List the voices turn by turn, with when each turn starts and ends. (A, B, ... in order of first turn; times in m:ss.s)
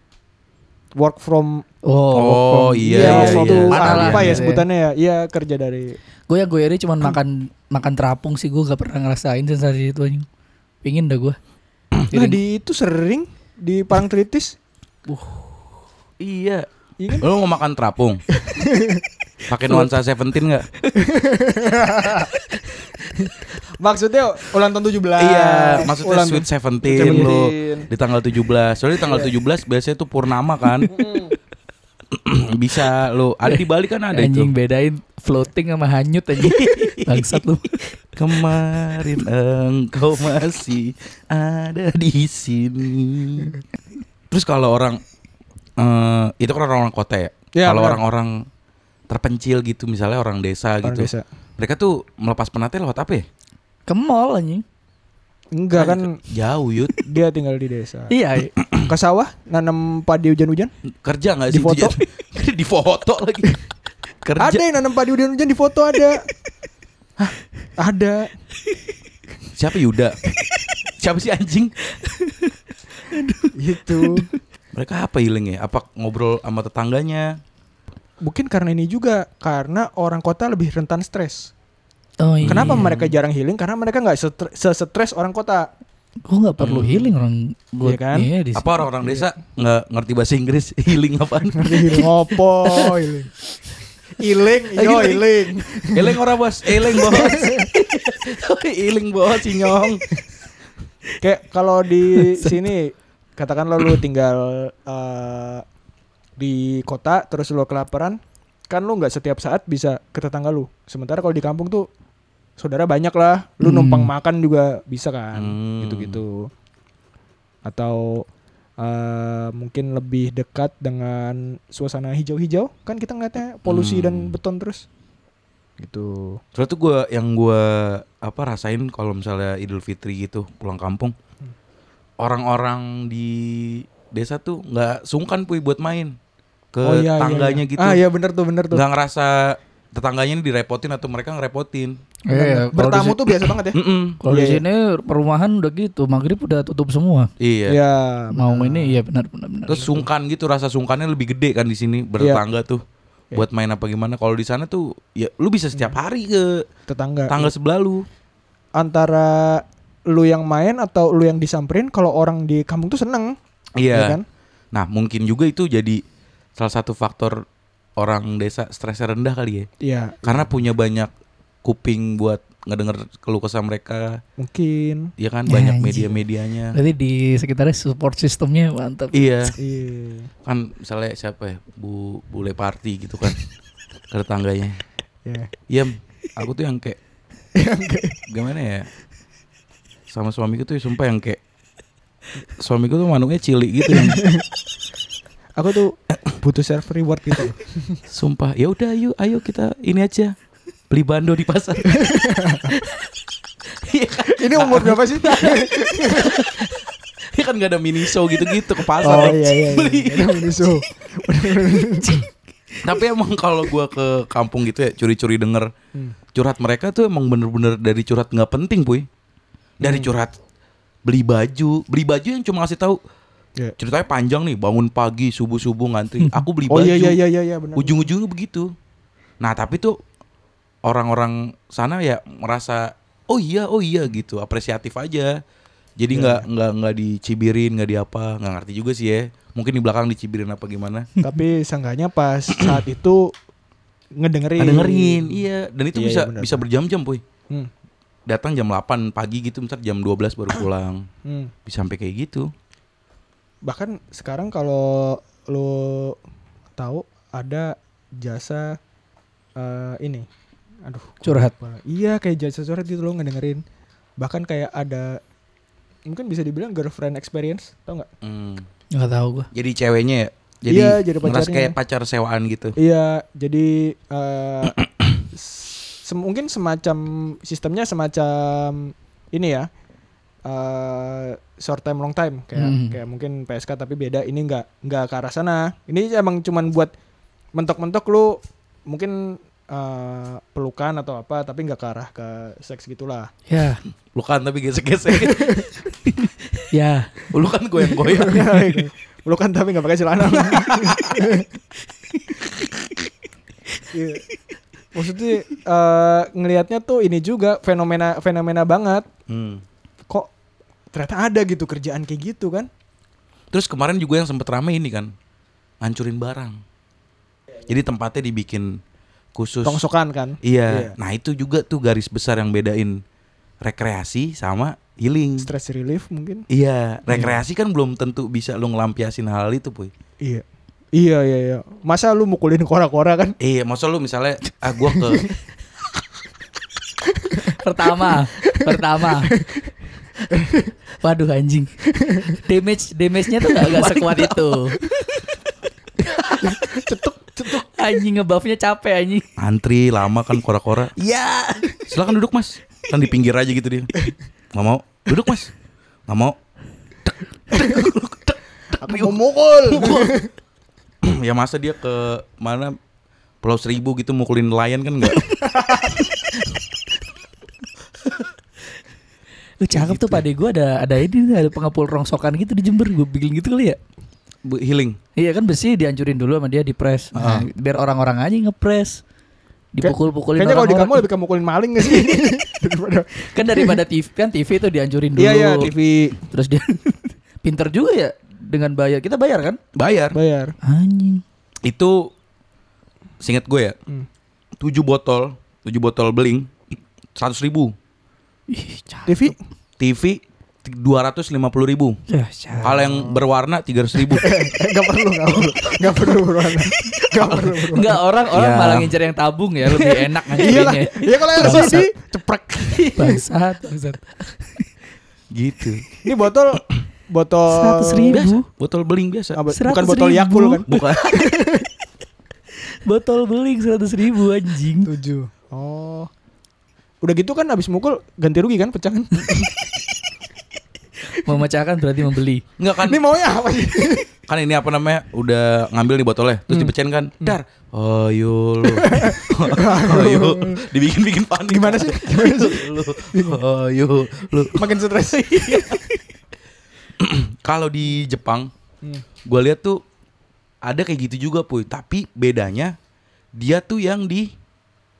0:01.0-0:01.6 A
0:01.8-0:04.6 B
0:02.1-0:04.4 C
0:02.9-0:06.0 A
0:06.3-0:10.3 B
0:10.8-0:11.4 B
0:12.1-0:12.4 B
0:12.1-0:14.6 A
0:15.1-0:15.5 B
0:16.2-0:18.2 C
0:17.0-0:17.3 A
0:18.3-0:19.0 A
0:19.5-0:20.7 C
0:21.0-0:22.3 A
0:23.2-0:27.9 A
0:25.2-0:30.9 C
0:27.0-0:27.3 B
0:29.0-0:29.3 A
0:30.9-0:31.4 A
0:32.1-0:34.5 C
0:33.5-0:37.8 B
0:36.4-0:37.4 C
0:38.2-0:43.6 C
0:44.3-0:45.0 C
0:45.8-0:48.5 C
0:47.6-0:48.0 A
0:49.1-0:53.3 C
0:50.8-0:51.2 A
0:53.9-0:54.6 B
0:55.5-0:56.2 A
0:55.8-0:57.0 C
0:57.0-0:58.1 A
0:58.1-0:58.5 B
0:58.8-1:00.7 A
1:01.0-1:03.6 C
1:01.5-1:02.0 A
1:04.2-1:04.6 C
1:04.4-1:06.2 A
1:07.8-1:08.3 A
1:09.6-1:10.2 C
1:11.0-1:11.7 C
1:11.9-1:14.4 B
1:13.6-1:14.3 A
1:14.7-1:17.4 C
1:18.2-1:21.5 A
1:22.2-1:23.0 B
1:22.4-1:23.1 C
1:22.5-1:25.7 A
1:26.3-1:28.8 B
1:26.6-1:27.1 C
1:27.8-1:28.3 A
1:28.6-1:32.1 C
1:29.0-1:29.3 A
1:31.6-1:33.3 A
1:34.2-1:36.2 A
1:34.8-1:40.0 C
1:36.9-1:37.7 A
1:41.2-1:45.6 A
1:42.1-1:42.7 B
1:46.4-1:51.9 A
1:52.6-1:56.5 A
1:53.6-1:54.1 B
1:55.3-1:56.2 C
1:57.6-1:58.3 A
1:58.8-2:04.9 A
2:03.7-2:04.4 C
2:05.8-2:06.4 A
2:06.6-2:11.2 C
2:12.2-2:16.2 C
2:16.7-2:18.0 C
2:16.8-2:18.8 A
2:18.7-2:22.0 C
2:22.3-2:23.6 B
2:22.3-2:24.6 A
2:23.7-2:24.2 C
2:24.2-2:27.3 B
2:27.4-2:27.8 C
2:27.7-2:29.0 A
2:28.3-2:29.9 B
2:29.7-2:32.8 C
2:29.8-2:30.0 A
2:33.3-2:36.7 C
2:36.9-2:37.5 A
2:37.3-2:38.1 C
2:38.8-2:44.2 A
2:43.8-2:44.2 C
2:44.7-2:46.0 C
2:46.6-2:47.4 C
2:48.0-2:49.7 C
2:49.8-2:50.5 A
2:50.2-2:51.1 C
2:51.6-2:54.2 C
2:54.4-2:55.1 A
2:55.2-2:56.8 C
2:55.5-2:56.2 B
2:56.7-2:59.5 B
2:59.1-2:59.5 C
2:59.6-3:00.3 A
3:00.4-3:03.4 C
3:04.1-3:04.8 C
3:05.3-3:05.5 A
3:05.7-3:07.0 C
3:07.6-3:08.2 A
3:08.3-3:08.9 C
3:10.1-3:11.4 C
3:12.6-3:14.3 C
3:13.9-3:14.4 A
3:15.6-3:18.0 A
3:18.1-3:20.3 C
3:20.9-3:22.1 C
3:21.9-3:22.7 A
3:22.7-3:23.1 C
3:23.7-3:30.6 C
3:24.3-3:26.4 A
3:29.0-3:32.2 A
3:32.0-3:32.3 B
3:32.8-3:35.7 C
3:36.3-3:39.1 C
3:39.8-3:40.4 C
3:39.8-3:40.1 A
3:41.1-3:43.0 C
3:43.8-3:47.2 C
3:46.2-3:46.4 B
3:46.7-3:48.1 A
3:47.8-3:48.7 C
3:49.4-3:50.0 C
3:50.8-3:55.4 C
3:56.0-4:01.1 C
3:56.1-3:56.5 A
4:01.2-4:03.3 A
4:02.6-4:02.8 C
4:04.2-4:05.4 A
4:04.6-4:07.2 C
4:06.0-4:06.6 A
4:08.3-4:11.1 C
4:11.2-4:11.5 A
4:11.7-4:12.5 C
4:13.6-4:16.2 A
4:16.8-4:18.8 A
4:19.6-4:20.3 A
4:20.8-4:23.6 A
4:21.2-4:21.5 B
4:24.2-4:25.2 A
4:26.1-4:28.1 A
4:28.2-4:28.7 C
4:28.9-4:29.5 B
4:29.5-4:32.8 C
4:30.7-4:31.8 A
4:32.8-4:34.8 A
4:34.8-4:35.2 C
4:35.3-4:39.7 A
4:40.4-4:46.9 A
4:42.6-4:43.0 B
4:47.5-4:53.3 A
4:53.5-4:53.8 B
4:54.1-4:55.7 C
4:55.1-4:55.7 A
4:56.7-4:57.3 B
4:57.3-4:58.5 C
4:58.0-5:01.5 A
5:00.3-5:01.2 C
5:03.9-5:04.2 A
5:04.9-5:09.1 A
5:09.3-5:09.6 C
5:10.9-5:12.7 A
5:13.5-5:15.1 C
5:15.8-5:16.6 C
5:17.7-5:18.8 C
5:19.4-5:19.8 C
5:19.6-5:21.0 A
5:20.4-5:23.0 C
5:23.6-5:25.5 C
5:25.4-5:26.5 A
5:26.5-5:29.9 C
5:27.1-5:27.4 A
5:31.0-5:33.4 A
5:33.4-5:35.3 C
5:35.0-5:35.3 A
5:37.2-5:39.7 A
5:37.3-5:39.4 B
5:40.3-5:40.7 A
5:41.0-5:44.8 B
5:42.0-5:42.4 A
5:43.6-5:44.6 C
5:46.2-5:46.5 B
5:46.4-5:47.7 A
5:47.5-5:49.3 B
5:49.4-5:51.0 C
5:51.0-5:51.7 B
5:51.8-5:53.9 C
5:54.5-5:55.5 C
5:56.1-5:56.4 C
5:57.5-6:00.2 C
5:57.5-5:57.9 A
5:58.8-6:00.3 A
6:01.0-6:02.8 C
6:03.4-6:05.4 C
6:05.5-6:06.0 A
6:09.6-6:13.8 B
6:09.7-6:10.2 C
6:14.4-6:15.0 C
6:15.2-6:19.0 B
6:17.2-6:17.5 C
6:19.7-6:21.1 B
6:19.8-6:23.8 A
6:21.8-6:22.2 B
6:23.2-6:29.6 B
6:25.2-6:26.2 A
6:29.8-6:30.2 C
6:30.1-6:30.6 A
6:30.6-6:31.2 B
6:31.6-6:32.1 C
6:33.2-6:33.8 C
6:34.6-6:36.6 C
6:37.2-6:37.7 C
6:38.5-6:39.3 B
6:39.1-6:39.4 A
6:39.8-6:42.0 C
6:42.1-6:42.8 B
6:42.6-6:44.3 C
6:42.6-6:43.2 A
6:44.1-6:48.0 A
6:47.2-6:47.6 C
6:47.7-6:51.9 B
6:48.3-6:48.9 C
6:49.7-6:53.2 A
6:51.4-6:51.7 C
6:52.8-6:54.6 B
6:55.3-6:55.8 C
6:56.0-6:58.2 A
6:57.5-6:58.5 B
6:58.1-6:59.4 C
6:59.4-7:01.7 A
6:59.5-7:00.9 B
7:00.7-7:01.2 C
7:02.8-7:04.9 B
7:04.8-7:06.1 A
7:07.0-7:09.6 A
7:11.1-7:12.4 B
7:12.6-7:13.0 C
7:12.8-7:14.1 A
7:14.3-7:25.8 C
7:16.5-7:17.4 A
7:18.7-7:20.7 A
7:21.5-7:23.4 A
7:24.5-7:25.9 A
7:27.0-7:28.5 C
7:29.2-7:29.8 C
7:30.6-7:32.8 C
7:33.4-7:34.3 C